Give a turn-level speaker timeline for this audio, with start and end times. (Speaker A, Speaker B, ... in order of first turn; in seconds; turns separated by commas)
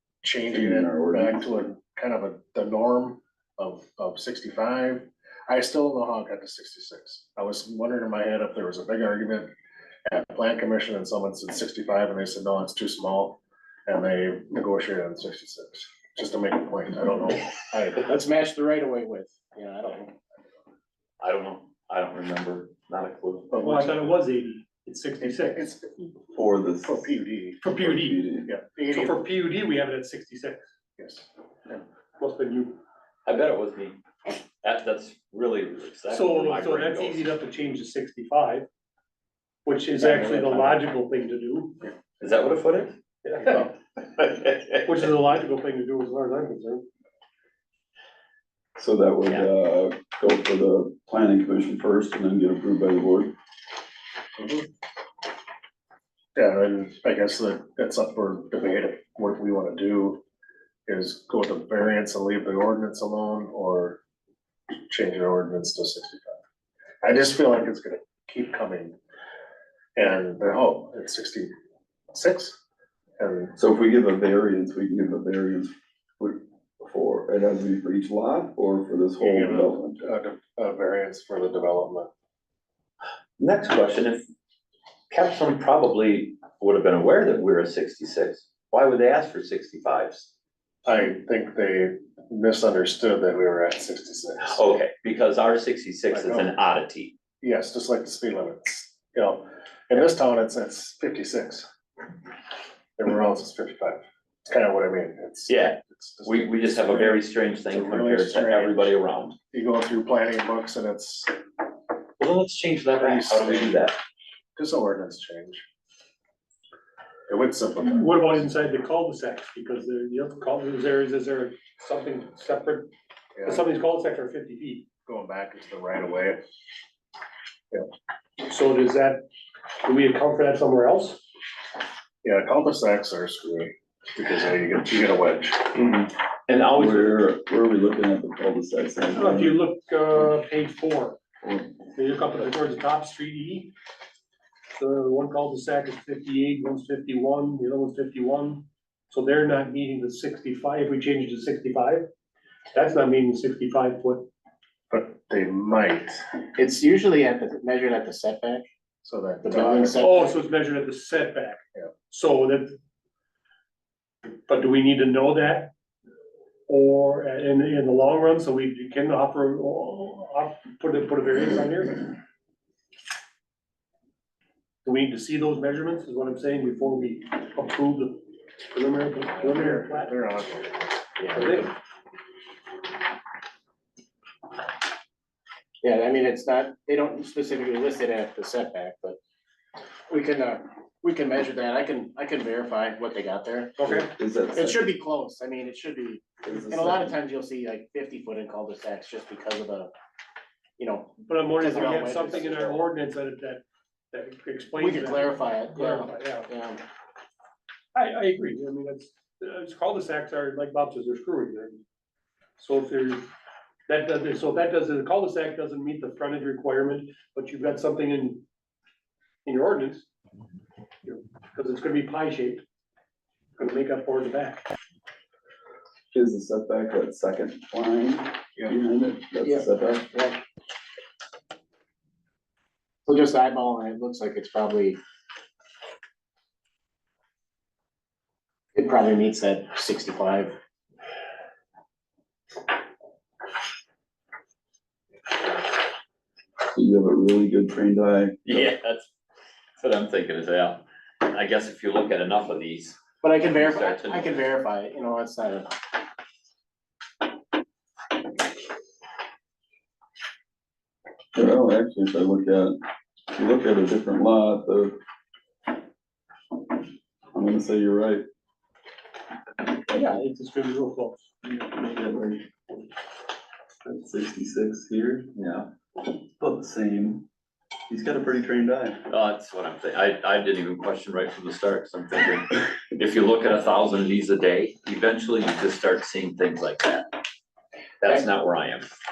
Speaker A: 0.2-9.5, Speaker B: 0.5-1.4, Speaker A: 10.1-18.1, Speaker C: 18.0-20.1, Speaker D: 21.2-23.6, Speaker A: 23.5-24.1, Speaker E: 23.6-25.7, Speaker A: 25.2-26.1, Speaker B: 26.3-27.1, Speaker A: 26.8-27.6, Speaker E: 27.6-28.2, Speaker B: 27.8-28.5, Speaker A: 28.5-29.2, Speaker E: 28.9-30.7, Speaker A: 31.0-31.8, Speaker E: 32.2-32.8, Speaker D: 33.3-34.0, Speaker D: 34.6-37.3, Speaker E: 36.1-38.7, Speaker E: 39.6-41.8, Speaker C: 40.0-40.8, Speaker D: 42.2-45.1, Speaker E: 43.3-43.6, Speaker E: 44.8-46.9, Speaker B: 48.8-53.3, Speaker A: 54.4-54.7, Speaker A: 56.4-60.2, Speaker A: 60.9-64.0, Speaker A: 64.9-66.4, Speaker A: 67.0-69.0, Speaker A: 70.0-71.5, Speaker A: 72.1-72.6, Speaker A: 73.2-73.5, Speaker B: 73.6-80.0, Speaker A: 79.2-82.1, Speaker D: 83.4-84.2, Speaker D: 85.1-90.3, Speaker A: 90.8-94.7, Speaker D: 94.5-97.2, Speaker A: 96.1-96.5, Speaker A: 97.4-101.7, Speaker A: 103.0-108.9, Speaker D: 105.5-109.4, Speaker A: 109.5-111.3, Speaker D: 112.2-114.0, Speaker A: 113.0-113.9, Speaker A: 114.6-115.7, Speaker A: 117.3-118.5, Speaker E: 117.8-122.9, Speaker A: 123.4-123.7, Speaker E: 123.5-124.9, Speaker A: 125.1-126.4, Speaker E: 128.4-129.2, Speaker E: 129.8-131.2, Speaker A: 132.2-136.0, Speaker D: 136.5-137.2, Speaker B: 136.8-139.6, Speaker E: 139.1-141.2, Speaker B: 141.4-141.7, Speaker E: 141.8-143.7, Speaker E: 144.8-152.1, Speaker E: 152.7-154.3, Speaker A: 154.9-156.2, Speaker C: 156.6-158.7, Speaker A: 159.0-160.1, Speaker C: 159.4-160.4, Speaker E: 160.0-162.8, Speaker E: 164.3-165.7, Speaker E: 166.7-172.2, Speaker E: 174.8-180.2, Speaker A: 179.3-181.6, Speaker E: 181.3-181.7, Speaker C: 185.8-189.2, Speaker C: 190.1-194.0, Speaker E: 193.8-194.1, Speaker B: 193.8-194.9, Speaker C: 194.5-199.9, Speaker B: 196.4-197.2, Speaker C: 200.8-202.9, Speaker E: 201.2-206.5, Speaker C: 204.8-206.8, Speaker E: 207.9-211.8, Speaker E: 212.6-213.3, Speaker E: 213.9-218.4, Speaker E: 219.4-220.1, Speaker E: 221.0-222.6, Speaker E: 223.6-224.6, Speaker B: 226.1-230.3, Speaker C: 229.4-230.3, Speaker C: 233.1-235.0, Speaker C: 238.7-240.6, Speaker B: 246.7-248.7, Speaker D: 248.4-249.1, Speaker D: 249.8-254.4, Speaker C: 253.2-255.7, Speaker B: 261.4-262.8, Speaker B: 263.3-265.0, Speaker B: 267.3-268.2, Speaker E: 269.9-271.3, Speaker B: 271.4-272.5, Speaker B: 273.8-275.3, Speaker D: 275.4-275.7, Speaker B: 276.4-277.3, Speaker B: 277.9-279.0, Speaker D: 279.1-287.1, Speaker D: 288.0-288.9